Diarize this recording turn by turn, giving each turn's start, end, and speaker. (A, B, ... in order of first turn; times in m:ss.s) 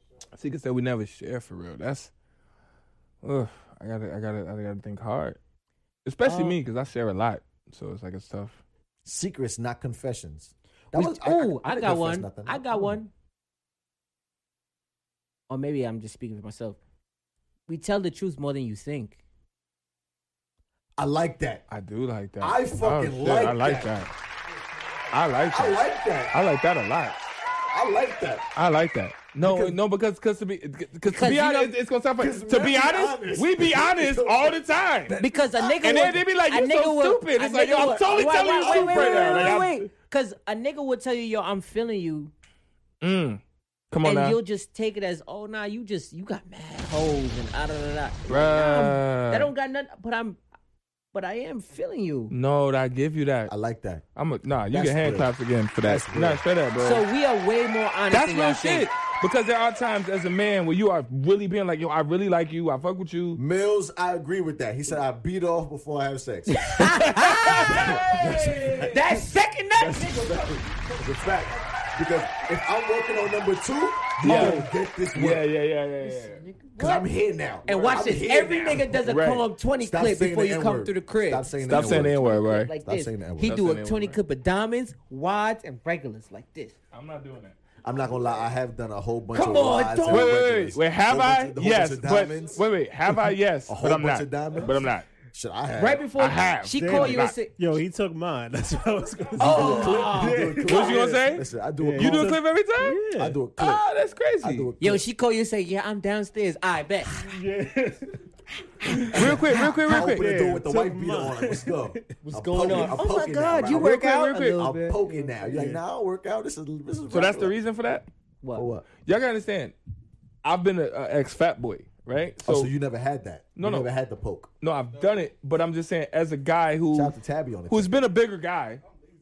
0:00.3-0:02.1 A
0:03.2-0:05.4 A
0:06.0-0:08.6 A
0:06.2-0:06.6 B
0:09.0-0:12.6 C
0:10.9-0:13.1 B
0:15.5-0:16.8 B
0:17.7-0:19.2 B
0:21.0-0:21.6 C
0:21.7-0:24.1 A
0:22.4-0:24.1 C
0:25.1-0:25.8 A
0:25.5-0:26.4 C
0:26.3-0:27.2 A
0:27.7-0:28.5 C
0:28.5-0:35.2 A
0:29.4-0:29.8 C
0:31.1-0:31.7 B
0:32.2-0:35.9 C
0:35.2-0:42.3 B
0:35.8-0:39.8 A
0:38.3-0:39.6 C
0:43.0-0:44.4 A
0:44.0-0:50.4 B
0:48.3-0:49.5 A
0:51.1-0:52.3 B
0:52.3-0:53.5 A
0:53.5-0:54.0 C
0:54.2-0:57.0 A
0:54.7-0:56.4 C
0:56.8-0:58.9 B
0:58.1-1:03.4 A
1:03.3-1:07.0 C
1:06.5-1:08.0 B
1:06.8-1:09.0 A
1:07.6-1:15.5 C
1:08.8-1:10.6 B
1:14.2-1:16.4 A
1:14.2-1:14.6 B
1:16.0-1:17.1 B
1:16.8-1:19.1 C
1:17.6-1:26.7 B
1:17.7-1:18.0 A
1:18.8-1:19.4 A
1:19.8-1:23.6 C
1:21.6-1:22.7 A
1:23.4-1:24.2 A
1:26.9-1:27.6 A
1:27.8-1:32.6 C
1:29.3-1:30.3 B
1:30.1-1:35.1 A
1:33.7-1:36.1 C
1:35.8-1:37.6 B
1:36.2-1:37.3 A
1:36.8-1:43.4 D
1:39.4-1:42.4 C
1:39.4-1:40.5 B
1:40.6-1:43.0 A
1:43.2-1:43.8 C
1:43.6-1:44.7 A
1:44.4-1:45.0 C
1:44.8-1:47.1 B
1:47.1-1:48.2 D
1:48.8-1:53.1 D
1:49.1-1:50.2 A
1:49.1-1:57.5 C
1:52.5-1:55.3 B
1:53.6-1:54.6 A
1:55.4-1:55.8 D
1:57.1-1:58.1 A
1:58.4-1:58.7 B
1:58.5-1:58.9 C
1:59.0-1:59.7 A
2:00.4-2:02.7 A
2:02.4-2:04.5 C
2:03.6-2:03.9 A
2:04.6-2:07.1 A
2:06.9-2:08.0 C
2:07.7-2:08.8 A